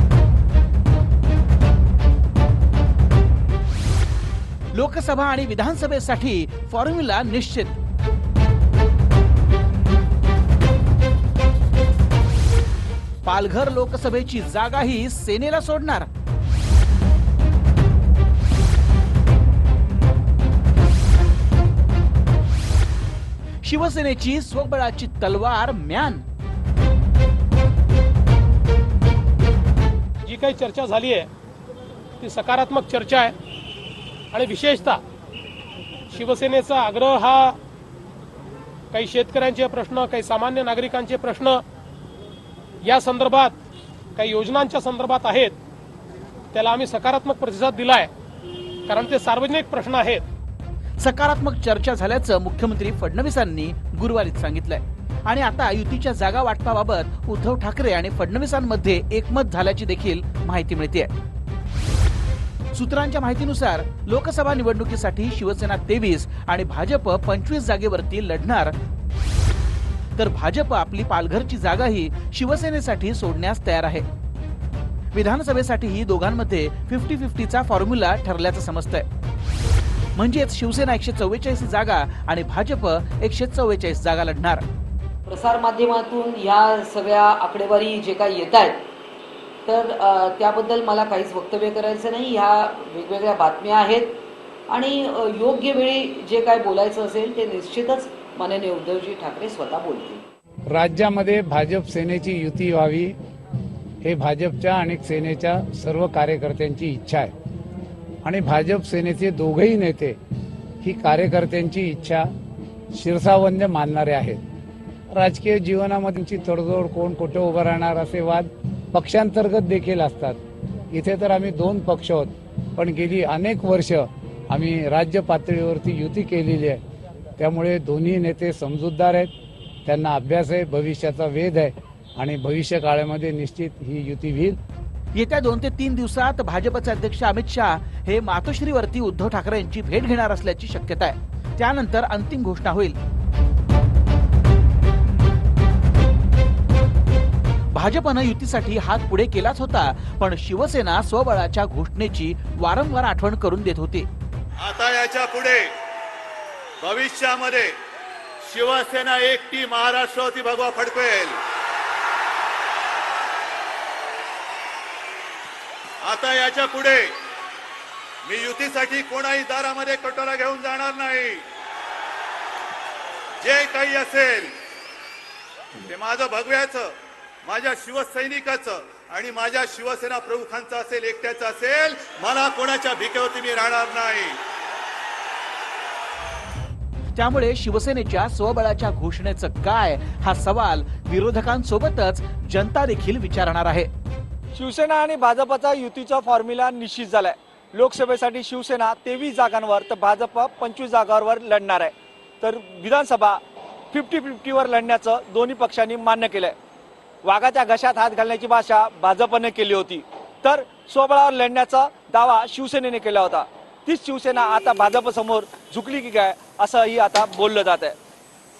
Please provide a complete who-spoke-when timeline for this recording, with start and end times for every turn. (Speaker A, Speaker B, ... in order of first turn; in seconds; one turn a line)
Speaker A: 4.7-7.8
Speaker A: 13.2-16.1
Speaker A: 23.6-26.2
Speaker B: 30.2-31.3
Speaker B: 32.2-33.3
Speaker B: 34.3-35.0
Speaker B: 36.1-37.5
Speaker B: 38.9-41.6
Speaker B: 42.8-43.5
Speaker B: 44.1-45.5
Speaker B: 46.5-48.1
Speaker B: 48.9-50.2
Speaker A: 51.0-61.1
Speaker A: 62.7-68.7
Speaker A: 70.2-74.0
Speaker A: 75.1-79.0
Speaker A: 80.2-84.6
Speaker C: 85.2-88.9
Speaker C: 89.7-100.2
Speaker D: 100.7-103.1
Speaker D: 104.0-107.3
Speaker D: 108.2-110.2
Speaker D: 110.8-112.3
Speaker D: 112.9-114.4
Speaker D: 115.1-120.4
Speaker D: 120.9-126.8
Speaker D: 127.4-129.3
Speaker D: 129.8-134.6
Speaker A: 135.1-143.0
Speaker A: 147.7-154.1
Speaker E: 154.6-155.7
Speaker E: 156.8-157.7
Speaker E: 158.4-161.4
Speaker E: 166.0-167.2
Speaker E: 168.2-171.4
Speaker E: 173.4-174.6
Speaker E: 175.8-176.9
Speaker E: 177.4-184.4
Speaker A: 187.1-193.9
Speaker F: 194.5-203.4
Speaker F: 203.9-206.6
Speaker F: 207.2-218.0